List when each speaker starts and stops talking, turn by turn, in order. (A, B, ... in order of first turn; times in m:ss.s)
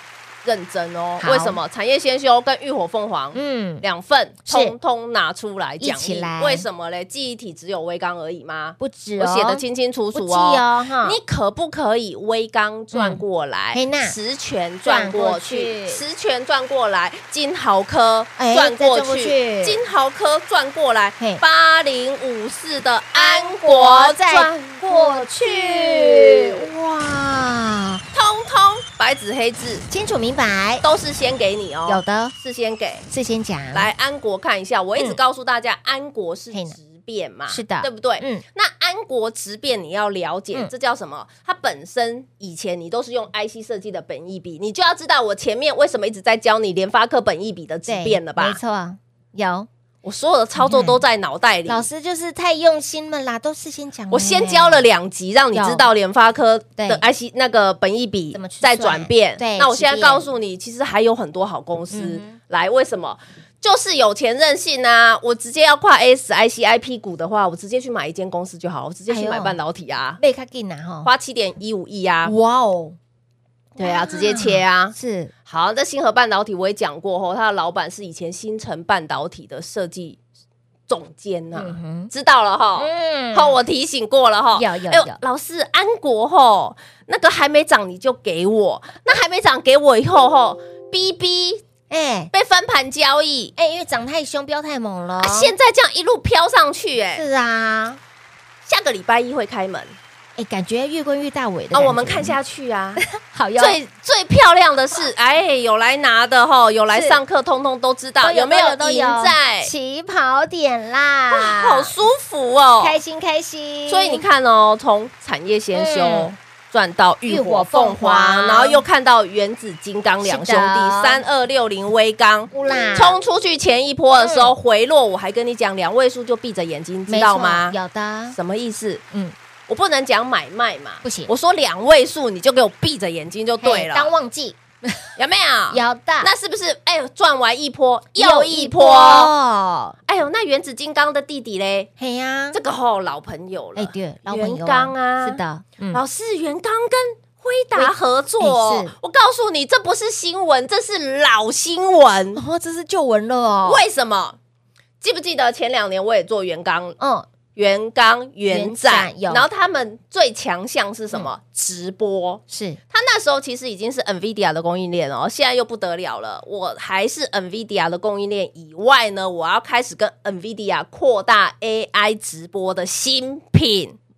0:00.4-0:26.7 A
0:01.2-0:01.6 B
0:03.3-0:03.8 B
0:04.4-0:04.8 B
0:05.8-0:06.6 B
0:08.8-0:09.6 B
0:10.1-0:11.2 B
0:12.9-0:13.2 B
0:13.7-0:14.2 B
0:14.8-0:16.0 B
0:18.4-0:19.8 B
0:23.1-0:28.0 B
0:28.1-0:29.8 A
0:29.9-0:30.8 B
0:30.8-0:33.0 A
0:31.9-0:32.3 B
0:33.1-0:33.9 B
0:33.7-0:48.6 A
0:36.5-0:36.8 B
0:37.5-0:38.4 B
0:47.9-0:49.7 B
0:50.0-0:51.8 A
0:50.6-0:51.0 B
0:51.7-0:54.8 B
0:54.1-1:10.2 A
0:55.5-0:55.8 B
0:56.8-0:57.0 B
0:58.3-1:00.2 B
1:01.9-1:02.4 B
1:09.1-1:09.6 B
1:10.2-1:11.1 B
1:11.0-1:12.3 A
1:12.2-1:13.0 B
1:13.8-1:15.3 B
1:13.8-1:14.9 A
1:15.5-1:20.2 A
1:20.9-1:31.6 A
1:21.5-1:22.1 B
1:22.8-1:23.6 B
1:24.6-1:25.2 B
1:31.9-1:32.3 B
1:32.3-1:33.5 A
1:33.6-1:35.5 B
1:35.2-1:37.2 A
1:37.1-1:38.0 B
1:38.6-1:40.0 A
1:40.4-1:42.4 B
1:41.7-1:43.0 A
1:43.0-1:43.8 B
1:43.6-1:49.7 A
1:46.9-1:47.2 B
1:48.2-1:51.9 B
1:51.3-1:53.0 A
1:52.8-1:54.2 B
1:53.9-2:07.8 A
1:55.7-1:56.3 B
1:57.3-1:58.8 B
2:00.2-2:01.2 B
2:02.5-2:03.2 B
2:04.2-2:04.5 B
2:07.1-2:08.4 B
2:08.3-2:09.0 A
2:09.7-2:14.1 A
2:11.0-2:11.3 B
2:13.6-2:15.1 B
2:15.2-2:19.3 A
2:15.7-2:16.3 B
2:18.2-2:20.0 B
2:20.0-2:21.9 A
2:22.0-2:22.6 B
2:22.5-2:25.4 A
2:23.8-2:26.0 B
2:25.9-2:32.4 A
2:27.8-2:28.9 B
2:32.4-2:33.8 B
2:33.6-2:34.4 A
2:35.0-2:37.0 A
2:37.0-2:37.3 B
2:37.5-2:54.0 A
2:38.5-2:39.5 B
2:42.5-2:42.8 B